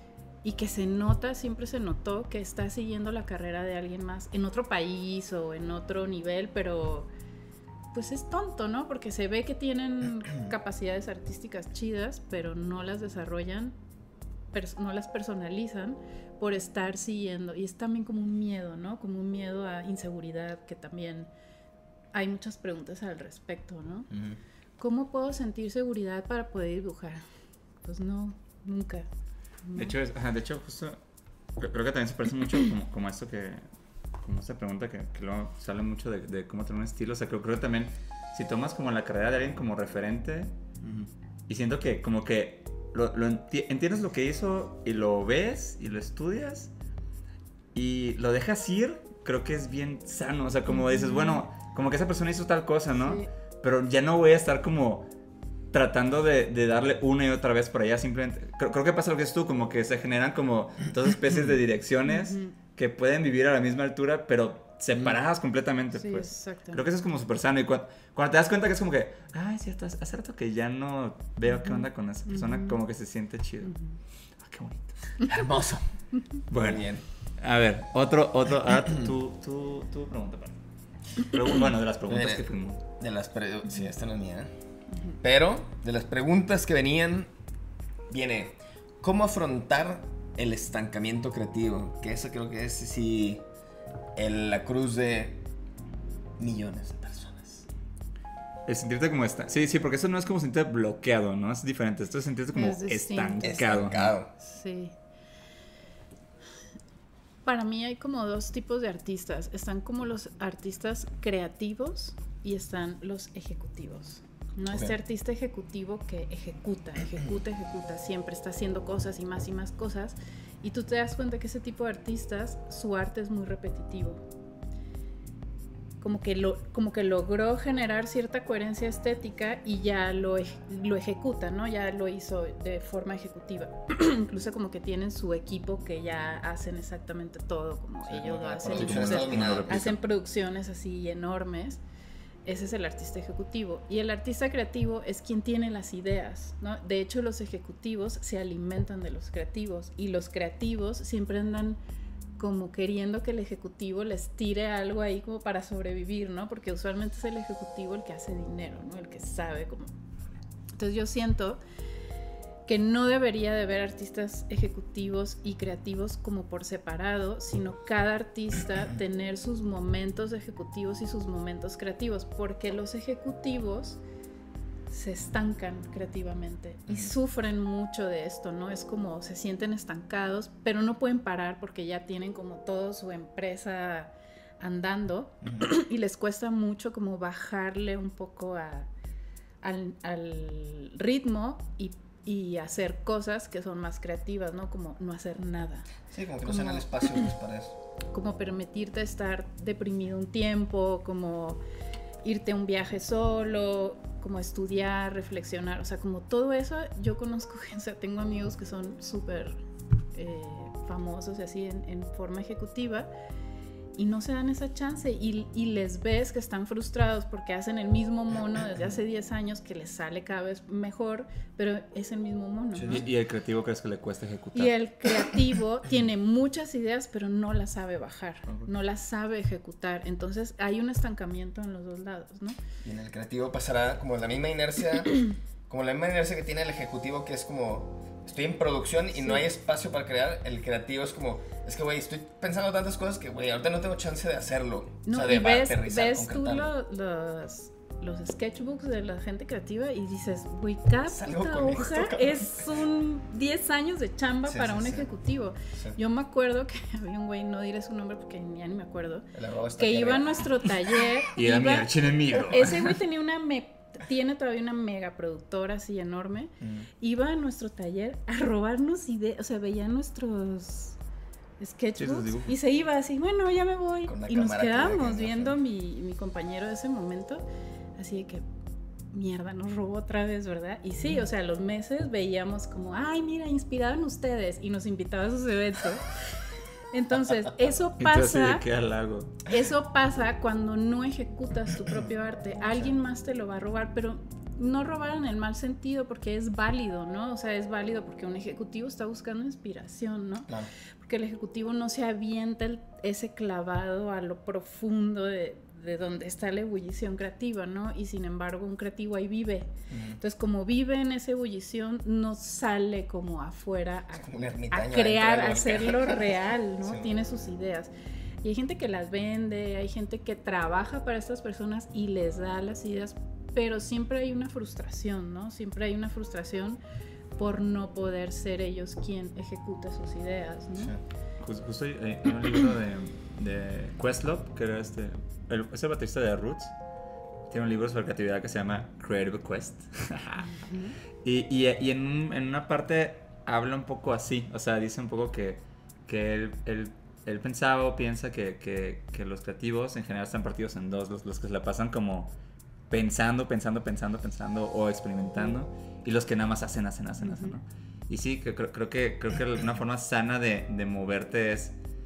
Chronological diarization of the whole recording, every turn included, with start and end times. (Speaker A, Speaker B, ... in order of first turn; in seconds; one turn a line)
Speaker A: 0.4-7.1
Speaker A: 7.9-13.8
Speaker A: 14.5-21.3
Speaker A: 22.1-24.1
Speaker B: 24.1-24.4
Speaker A: 24.8-27.2
Speaker A: 27.8-29.1
Speaker A: 29.6-29.9
Speaker C: 29.8-31.0
Speaker C: 31.6-33.6
Speaker C: 34.2-40.5
Speaker B: 40.8-41.1
Speaker C: 41.5-46.7
Speaker C: 47.7-55.1
Speaker A: 50.7-51.4
Speaker A: 53.0-53.2
Speaker C: 55.7-73.7
Speaker A: 62.0-62.5
Speaker A: 65.9-66.8
Speaker A: 71.5-72.8
Speaker A: 73.6-74.0
Speaker C: 74.4-75.1
Speaker B: 75.2-75.9
Speaker C: 76.5-80.6
Speaker B: 76.5-77.0
Speaker C: 81.2-82.8
Speaker B: 82.1-84.5
Speaker A: 84.9-85.2
Speaker B: 85.2-87.3
Speaker B: 88.1-93.4
Speaker B: 94.2-95.4
Speaker B: 96.4-97.7
Speaker C: 98.7-104.1
Speaker A: 102.5-103.9
Speaker B: 103.4-104.3
Speaker A: 104.4-105.0
Speaker A: 107.4-124.2
Speaker B: 114.7-115.0
Speaker A: 126.0-141.8
Speaker B: 138.1-139.9
Speaker C: 138.7-140.0
Speaker A: 142.4-151.8
Speaker A: 152.4-159.9
Speaker A: 160.8-161.6
Speaker A: 162.7-174.0
Speaker A: 174.9-188.9
Speaker A: 189.6-195.9
Speaker B: 196.1-197.8
Speaker A: 196.4-197.3
Speaker A: 198.1-201.6
Speaker A: 202.2-209.6
Speaker A: 210.1-213.1
Speaker A: 213.9-223.1
Speaker B: 222.7-223.1
Speaker C: 222.9-224.7
Speaker A: 224.5-232.6
Speaker B: 232.8-246.7
Speaker A: 239.2-239.4
Speaker A: 245.1-259.2
Speaker B: 251.1-252.7
Speaker B: 254.4-255.1
Speaker B: 255.7-256.0
Speaker B: 259.3-260.4
Speaker A: 259.8-261.9
Speaker C: 261.4-263.0
Speaker A: 262.4-271.0
Speaker B: 266.6-266.9
Speaker A: 271.6-277.4
Speaker C: 272.0-272.6
Speaker B: 274.0-275.6
Speaker A: 278.0-278.4
Speaker A: 279.1-286.1
Speaker A: 286.9-288.6
Speaker C: 288.0-289.4
Speaker A: 289.4-317.9
Speaker B: 309.9-310.2
Speaker B: 314.1-317.1
Speaker A: 318.4-326.8
Speaker A: 327.4-330.9
Speaker C: 331.4-336.7
Speaker C: 337.5-340.5
Speaker A: 340.5-340.9
Speaker C: 341.2-352.3
Speaker C: 352.9-361.7
Speaker A: 355.2-355.6
Speaker A: 357.2-357.6